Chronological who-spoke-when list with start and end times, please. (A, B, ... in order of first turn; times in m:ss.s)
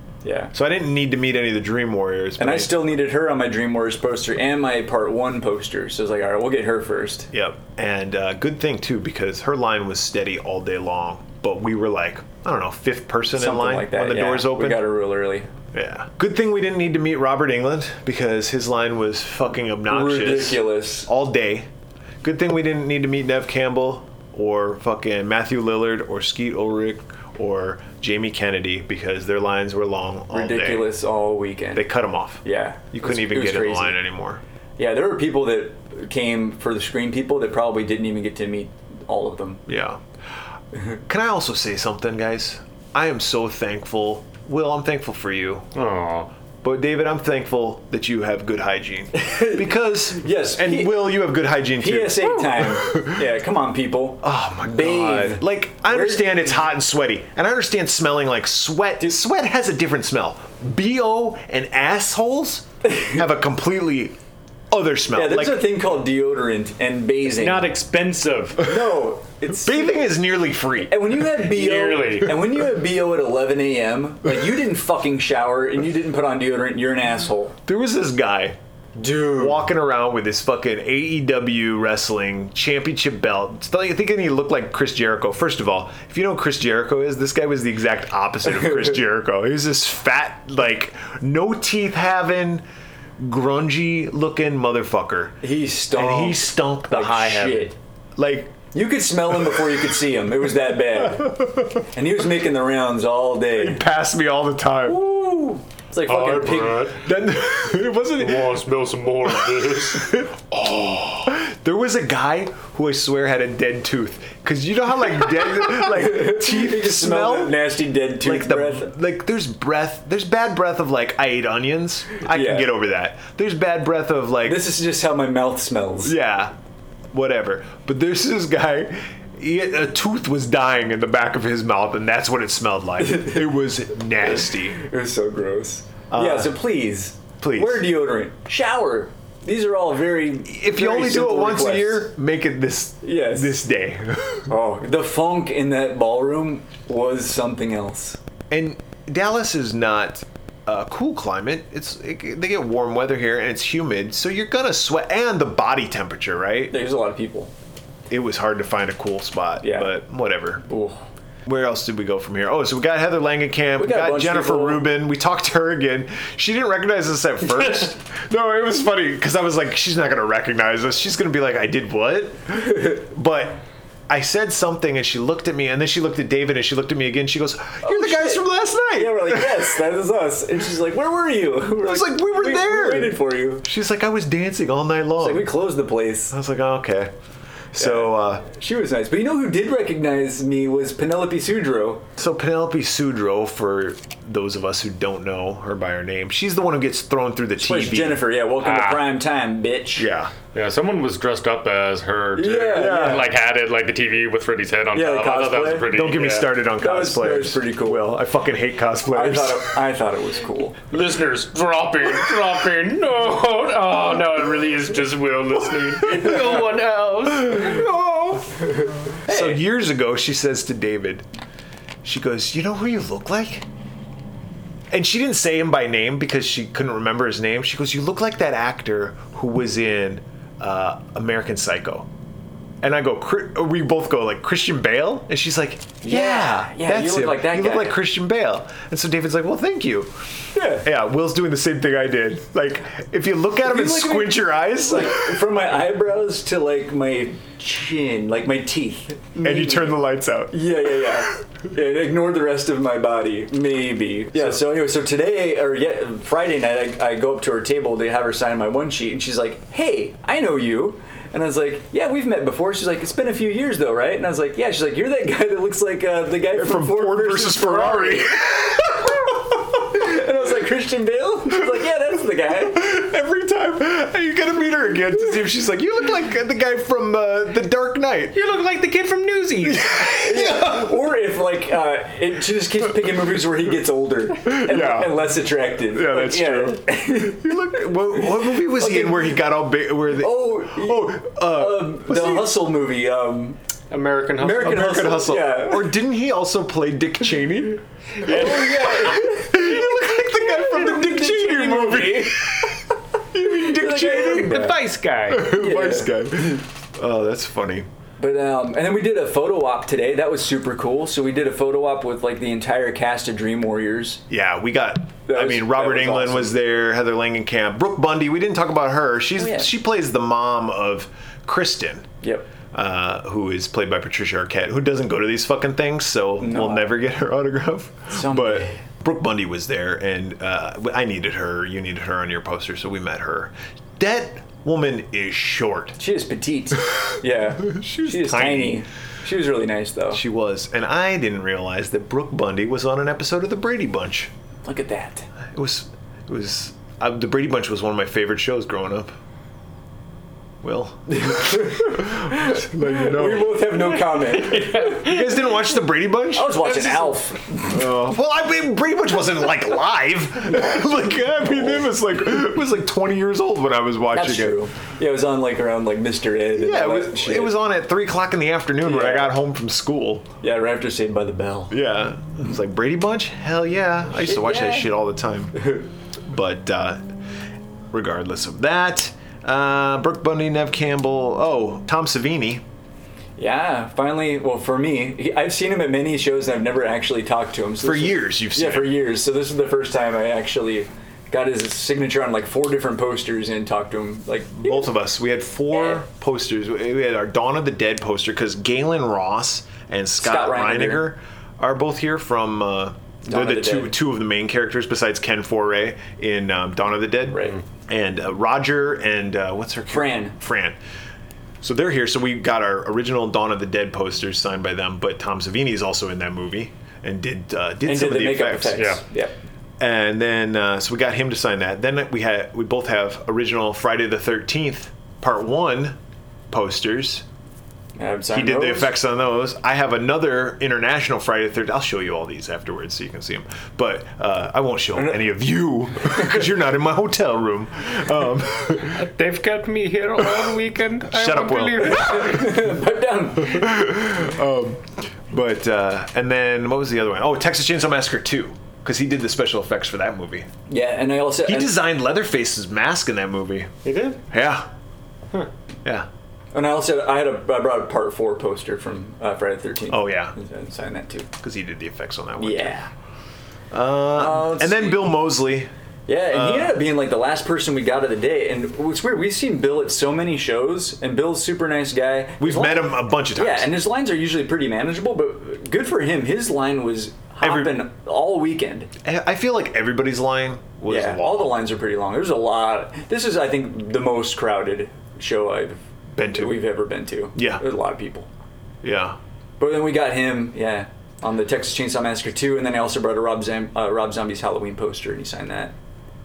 0:00.2-0:00.5 A
0:00.5-0:02.9 B
0:02.4-0:07.3 A
0:07.3-0:14.8 B
0:13.4-0:15.5 A
0:15.7-0:21.7 B
0:19.9-0:21.1 A
0:22.2-0:30.9 B
0:30.3-0:31.9 A
0:31.8-0:34.4 B
0:32.4-0:34.0 A
0:34.8-0:39.6 A
0:39.7-0:40.0 B
0:41.1-0:45.7 B
0:45.8-0:46.3 C
0:46.6-0:53.3 B
0:49.2-0:51.1 A
0:51.8-0:56.6 A
0:54.2-1:04.2 B
1:02.9-1:03.2 A
1:04.7-1:05.7 B
1:05.1-1:07.7 A
1:07.3-1:08.7 C
1:08.6-1:09.9 A
1:09.5-1:11.3 B
1:10.9-1:17.6 A
1:11.4-1:12.4 C
1:17.7-1:18.6 B
1:19.0-1:19.7 A
1:19.3-1:32.6 B
1:33.2-1:35.4 B
1:35.4-1:37.8 A
1:35.9-1:38.6 B
1:38.7-1:41.4 A
1:41.0-1:41.8 B
1:41.9-1:43.8 A
1:43.6-1:45.0 B
1:44.9-1:46.9 A
1:46.0-1:47.0 C
1:46.9-1:48.6 B
1:48.2-1:50.2 C
1:49.5-2:04.6 B
1:55.6-1:58.9 A
2:02.2-2:02.7 A
2:04.4-2:06.2 A
2:06.0-2:06.5 B
2:07.1-2:14.8 B
2:13.0-2:13.4 A
2:14.2-2:22.1 A
2:16.1-2:16.6 B
2:17.4-2:17.9 B
2:20.5-2:24.5 B
2:23.0-2:23.6 A
2:24.5-2:28.2 A
2:28.5-2:36.8 B
2:36.7-2:37.5 A
2:38.1-2:40.6 B
2:39.6-2:39.9 A
2:40.7-2:41.0 A
2:41.5-2:59.8 B
2:43.8-2:44.8 A
2:57.8-3:03.6 A
3:01.8-3:05.6 B
3:05.2-3:06.4 A
3:06.3-3:07.1 B
3:07.7-3:08.5 B
3:07.8-3:12.0 A
3:12.2-3:18.2 B
3:17.6-3:20.1 A
3:18.6-3:19.1 C
3:20.0-3:20.3 B
3:20.5-3:26.6 C
3:22.4-3:23.3 A
3:22.7-3:23.3 B
3:24.9-3:25.9 A
3:25.8-3:29.8 B
3:26.8-3:28.1 A
3:29.1-3:30.8 A
3:30.9-3:37.9 C
3:37.4-3:38.5 B
3:38.7-3:39.6 A
3:39.3-3:41.2 B
3:42.0-3:43.6 B
3:44.9-3:52.1 B
3:52.8-4:00.1 B
3:56.0-3:58.0 A
4:00.5-4:00.9 A
4:00.8-4:05.5 B
4:03.6-4:10.0 A
4:09.4-4:11.1 B
4:10.5-4:32.8 A
4:14.4-4:14.6 B
4:26.5-4:29.5 B
4:32.7-4:38.4 B
4:38.3-4:40.2 C
4:39.7-4:41.0 B
4:40.1-4:49.4 A
4:44.4-4:45.4 B
4:45.9-4:52.6 B
4:50.2-4:53.6 A
4:53.9-4:55.2 C
4:54.4-4:55.9 A
4:54.6-5:04.8 B
4:58.2-4:59.8 A
5:00.4-5:02.6 A
5:03.5-5:04.8 A
5:04.3-5:05.5 C
5:05.3-5:07.9 B
5:05.4-5:06.3 A
5:08.2-5:14.2 A
5:14.3-5:22.1 B
5:15.3-5:16.6 A
5:19.4-5:19.7 A
5:22.2-5:22.5 A
5:22.7-5:36.0 B
5:26.4-5:26.9 A
5:28.1-5:28.8 A
5:36.0-5:40.2 A
5:37.6-5:38.8 B
5:40.1-5:44.3 B
5:44.6-5:45.3 A
5:45.5-5:49.1 B
5:50.6-5:53.9 B
5:51.1-5:55.1 A
5:54.5-5:55.0 C
5:54.8-5:56.9 B
5:56.3-5:57.8 A
5:57.6-6:04.6 B
6:04.1-6:07.6 A
6:06.6-6:10.3 B
6:08.8-6:09.4 A
6:10.4-6:11.8 A
6:11.7-6:15.6 B
6:14.2-6:14.9 A
6:15.6-6:15.8 A
6:16.2-6:17.0 B
6:17.9-6:22.6 B
6:23.4-6:34.9 A
6:27.8-6:29.0 B
6:34.6-6:50.8 B
6:40.2-6:41.0 A
6:43.3-6:44.0 A
6:47.3-6:47.6 A
6:49.9-6:50.4 A
6:51.6-6:58.9 B
6:57.8-6:59.3 A
6:59.8-7:06.0 B
7:06.5-7:07.2 B
7:08.0-7:09.0 A
7:08.3-7:19.0 B
7:18.8-7:22.6 C
7:21.1-7:22.4 B
7:21.8-7:23.7 A
7:23.4-7:30.5 B
7:30.7-7:31.8 A
7:31.4-7:33.7 B
7:33.8-7:34.2 C
7:34.3-7:34.7 B
7:36.5-7:41.3 A
7:39.9-7:40.3 B
7:41.4-7:42.8 B
7:42.4-7:42.9 A
7:43.7-7:45.7 B
7:44.2-7:45.1 A
7:46.1-7:58.9 A
7:46.3-7:46.8 B
7:52.4-7:53.8 B
7:57.4-7:57.8 B
7:59.0-8:01.6 B
8:00.9-8:08.3 A
8:06.2-8:06.6 B
8:07.4-8:07.6 B
8:08.8-8:09.2 B
8:09.6-8:15.7 A